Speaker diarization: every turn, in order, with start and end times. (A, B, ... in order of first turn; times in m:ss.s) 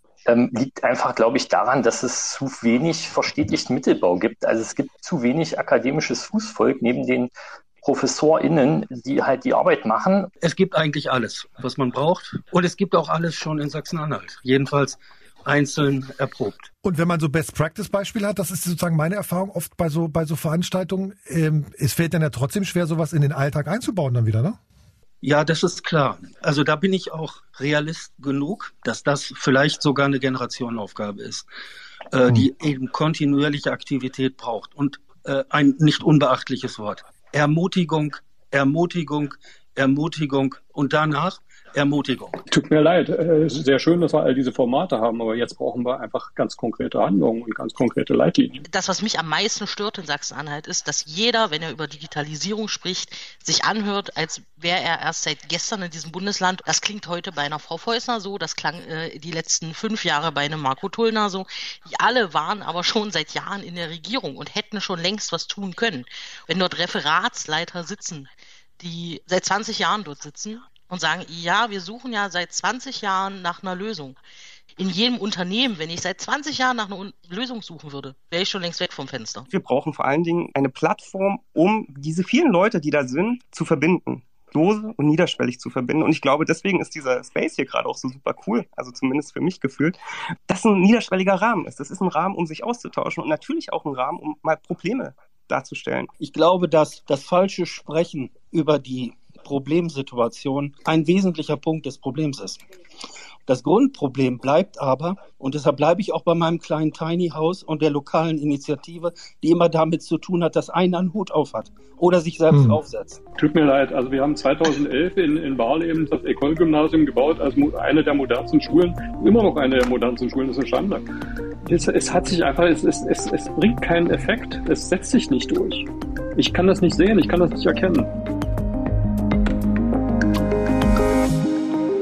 0:00.2-0:07.3 A
0:07.8-0:10.3 A
0:10.4-0:16.7 B
0:16.8-0:24.6 C
0:25.2-0:31.5 B
0:32.1-0:42.4 B
0:42.5-0:48.6 D
0:48.7-1:08.3 E
1:08.8-1:14.2 E
1:14.8-1:19.5 E
1:19.5-1:36.1 F
1:36.2-1:42.7 B
1:43.5-1:53.2 B
1:53.4-2:01.1 D
2:01.6-2:08.1 D